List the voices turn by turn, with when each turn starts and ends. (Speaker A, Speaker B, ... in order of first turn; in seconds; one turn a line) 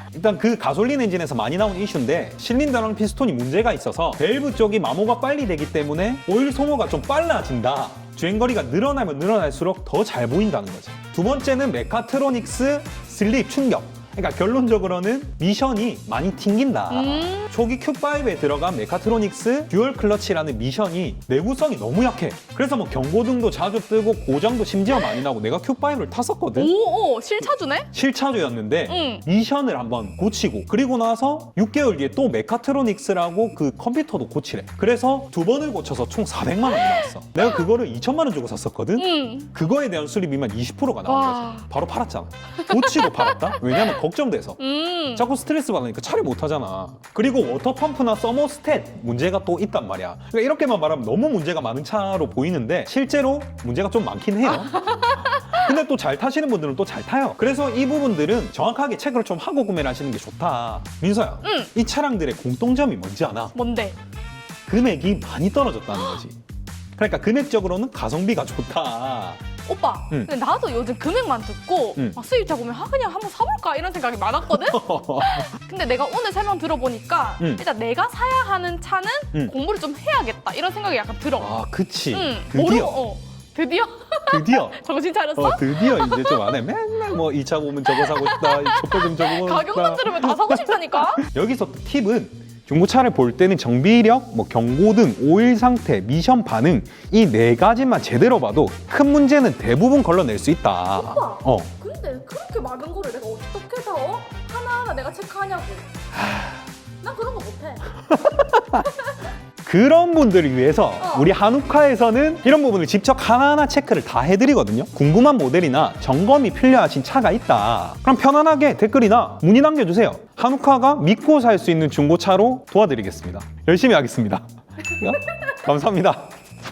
Speaker A: 0.1-26.7
Speaker B: 16.9-17.5
Speaker B: 26.6-27.9
Speaker A: 27.9-44.6
Speaker B: 28.9-29.2
Speaker B: 36.7-37.1
Speaker B: 39.0-39.5
Speaker B: 41.1-41.6
Speaker B: 42.6-44.0
Speaker B: 44.6-45.3
Speaker A: 45.1-63.6
Speaker B: 54.5-55.6
Speaker B: 61.4-61.7
Speaker B: 63.5-64.0
Speaker A: 64.7-66.4
Speaker A: 67.0-69.4
Speaker B: 69.7-81.6
Speaker A: 74.5-75.5
Speaker A: 77.4-77.6
Speaker A: 81.4-83.0
Speaker B: 82.1-86.6
Speaker A: 84.3-84.8
Speaker A: 85.4-101.7
Speaker B: 87.8-91.2
Speaker B: 101.0-105.9
Speaker A: 106.2-106.6
Speaker B: 107.0-107.9
Speaker A: 108.1-108.9
Speaker A: 109.6-126.3
Speaker B: 111.0-111.3